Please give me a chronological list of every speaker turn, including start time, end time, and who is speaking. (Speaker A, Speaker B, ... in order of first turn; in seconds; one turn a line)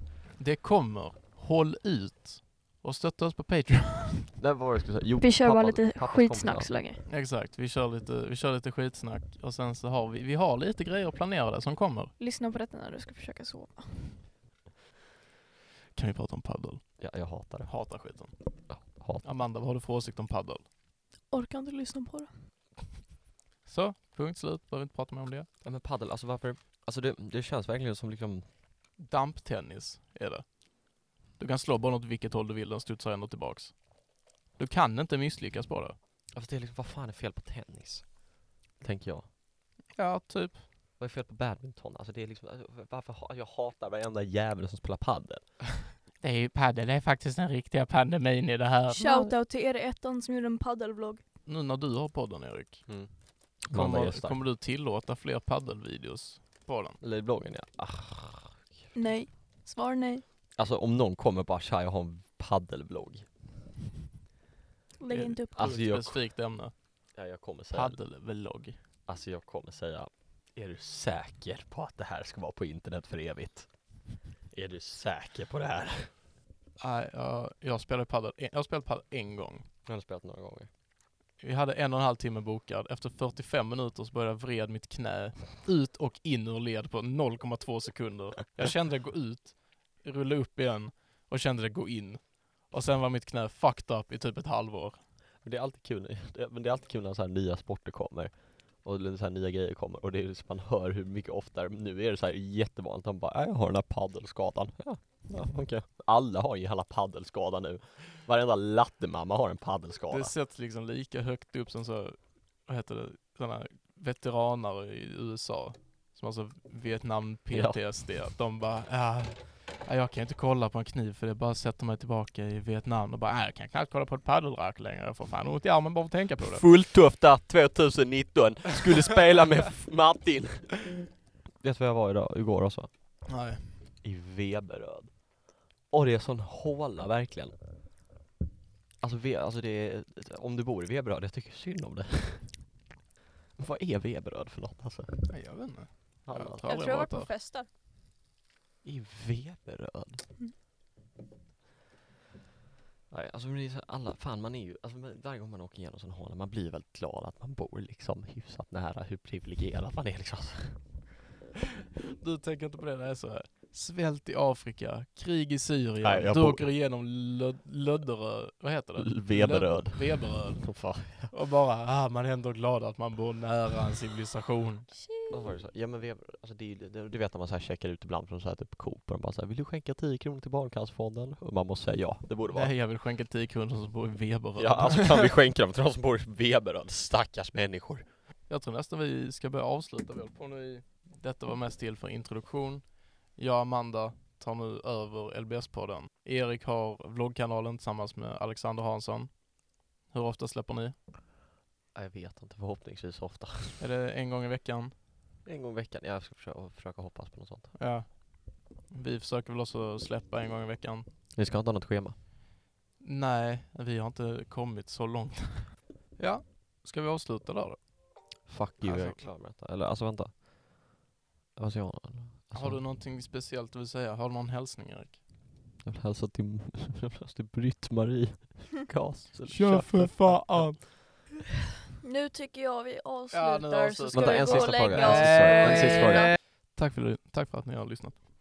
Speaker A: 0.4-4.3
Speaker B: 4.4-6.7
Speaker C: 5.2-7.0
Speaker A: 7.1-12.1
Speaker C: 12.2-14.3
Speaker A: 15.9-20.6
Speaker B: 17.0-18.0
Speaker B: 18.7-19.2
Speaker C: 21.3-22.3
Speaker A: 23.6-25.5
Speaker B: 25.6-28.5
Speaker A: 29.0-34.0
Speaker A: 34.5-36.0
Speaker B: 36.3-39.3
Speaker A: 39.9-40.6
Speaker B: 41.0-45.6
Speaker A: 46.2-49.2
Speaker C: 48.9-51.2
Speaker A: 51.5-53.1
Speaker B: 52.9-54.4
Speaker A: 53.7-57.0
Speaker B: 57.0-58.7
Speaker C: 58.9-60.2
Speaker B: 60.5-63.4
Speaker C: 65.0-65.7
Speaker A: 65.1-67.1
Speaker B: 65.5-66.2
Speaker B: 67.1-68.0
Speaker A: 67.7-68.8
Speaker B: 69.0-76.1
Speaker A: 76.8-79.7
Speaker B: 79.8-80.7
Speaker A: 81.4-95.0
Speaker B: 95.4-110.3
Speaker A: 110.1-126.6
Speaker B: 117.5-118.0
Speaker B: 126.4-130.9
Speaker B: 131.6-132.9
Speaker A: 133.3-133.8
Speaker B: 134.0-135.3
Speaker B: 135.9-137.5
Speaker B: 139.0-142.7
Speaker B: 143.6-145.3
Speaker A: 145.3-147.3
Speaker B: 146.2-146.8
Speaker C: 146.6-147.7
Speaker B: 148.8-150.3
Speaker B: 153.1-161.0
Speaker A: 162.1-174.9
Speaker B: 166.0-166.7
Speaker B: 169.0-171.3
Speaker C: 174.9-175.6
Speaker B: 175.3-182.7
Speaker A: 182.5-185.2
Speaker B: 184.6-188.1
Speaker A: 188.5-201.0
Speaker B: 201.9-203.8
Speaker A: 203.8-204.9
Speaker B: 205.4-207.7
Speaker A: 207.7-211.1
Speaker B: 211.3-212.2
Speaker A: 213.0-217.8
Speaker B: 218.4-220.4
Speaker A: 218.8-219.3
Speaker B: 221.6-222.8
Speaker A: 222.5-225.2
Speaker B: 225.8-231.0
Speaker A: 229.5-230.8
Speaker C: 232.0-236.3
Speaker A: 233.3-238.2
Speaker B: 234.1-236.4